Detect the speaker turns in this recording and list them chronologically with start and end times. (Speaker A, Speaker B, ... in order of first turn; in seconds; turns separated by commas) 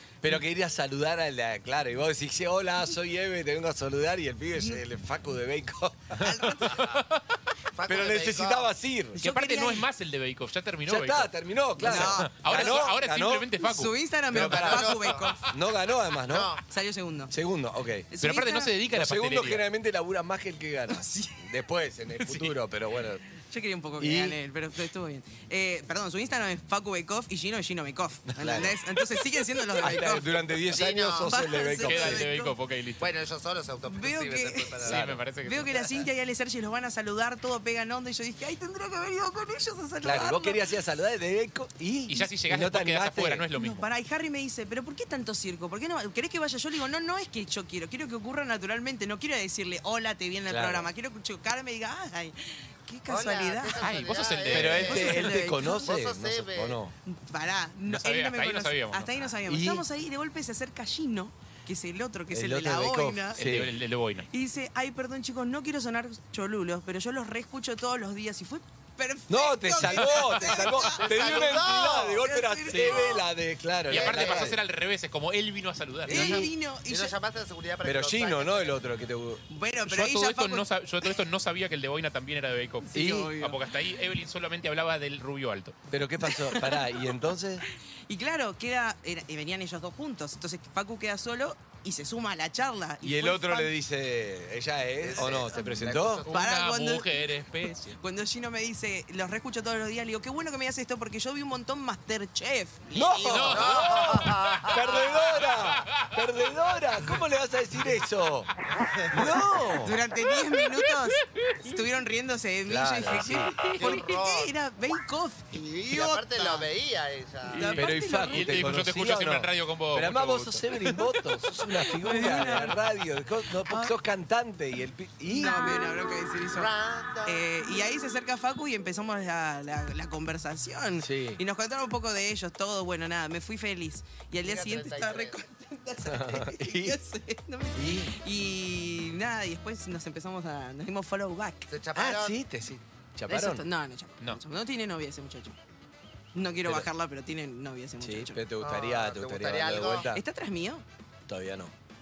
Speaker A: 0.2-6.7, Speaker B: 6.1-6.9, Speaker C: 6.9-7.2, Speaker D: 7.7-8.7, Speaker A: 7.9-9.2, Speaker B: 9.1-9.9, Speaker C: 9.2-13.9, Speaker A: 10.8-13.5, Speaker B: 11.8-12.8, Speaker B: 13.6-15.4, Speaker A: 14.3-16.5, Speaker D: 14.3-15.3, Speaker D: 16.3-16.6, Speaker B: 16.7-17.4, Speaker A: 17.3-18.1, Speaker B: 18.1-18.7, Speaker C: 18.2-19.6, Speaker A: 18.9-23.2, Speaker B: 20.9-21.5, Speaker C: 22.2-22.5, Speaker B: 23.5-30.6, Speaker A: 24.0-24.4, Speaker A: 28.3-28.8, Speaker A: 29.8-32.3, Speaker D: 30.7-31.4, Speaker B: 31.2-32.5, Speaker C: 31.8-33.1, Speaker D: 33.0-35.0, Speaker B: 33.9-34.9, Speaker A: 34.8-35.2, Speaker C: 34.8-35.7, Speaker B: 35.4-40.6, Speaker A: 40.0-43.5, Speaker C: 42.1-43.9, Speaker B: 43.6-53.8, Speaker A: 50.5-50.9, Speaker D: 53.1-56.8, Speaker C: 53.8-55.2, Speaker A: 54.5-56.9, Speaker B: 54.8-55.9, Speaker B: 57.0-63.5, Speaker C: 57.8-59.3, Speaker A: 59.5-59.8, Speaker A: 62.3-63.7, Speaker C: 63.4-64.3, Speaker B: 64.3-73.2, Speaker A: 69.3-74.6, Speaker D: 70.5-73.2, Speaker D: 73.9-74.5, Speaker C: 73.9-76.4, Speaker D: 76.0-78.8, Speaker B: 76.1-77.1, Speaker A: 77.8-79.4, Speaker B: 79.5-80.7, Speaker C: 79.9-85.7, Speaker B: 82.8-83.5, Speaker A: 82.9-83.4, Speaker A: 85.9-87.6, Speaker B: 86.2-87.0, Speaker B: 88.1-93.7, Speaker A: 93.0-96.2, Speaker D: 95.0-96.3, Speaker C: 96.2-98.0, Speaker B: 96.3-97.1, Speaker B: 97.6-103.7, Speaker A: 102.9-108.5, Speaker C: 103.2-106.0, Speaker D: 103.5-105.5, Speaker D: 108.8-109.2, Speaker A: 109.1-110.0, Speaker B: 109.8-116.7, Speaker A: 112.7-113.6, Speaker D: 113.7-114.5, Speaker D: 115.5-117.7, Speaker C: 117.5-121.3, Speaker B: 117.5-118.7, Speaker A: 117.7-125.8, Speaker B: 121.8-122.8, Speaker B: 123.7-123.9, Speaker B: 125.2-126.7, Speaker D: 126.5-127.4, Speaker B: 127.2-141.7, Speaker A: 131.0-131.4, Speaker D: 134.4-135.4, Speaker A: 136.1-137.0, Speaker A: 137.8-138.1, Speaker D: 141.7-142.3, Speaker A: 141.9-143.7, Speaker B: 143.3-145.6, Speaker B: 146.3-148.4, Speaker A: 146.6-146.9, Speaker A: 148.0-150.2, Speaker D: 148.6-150.1, Speaker B: 150.1-150.8, Speaker A: 151.3-151.7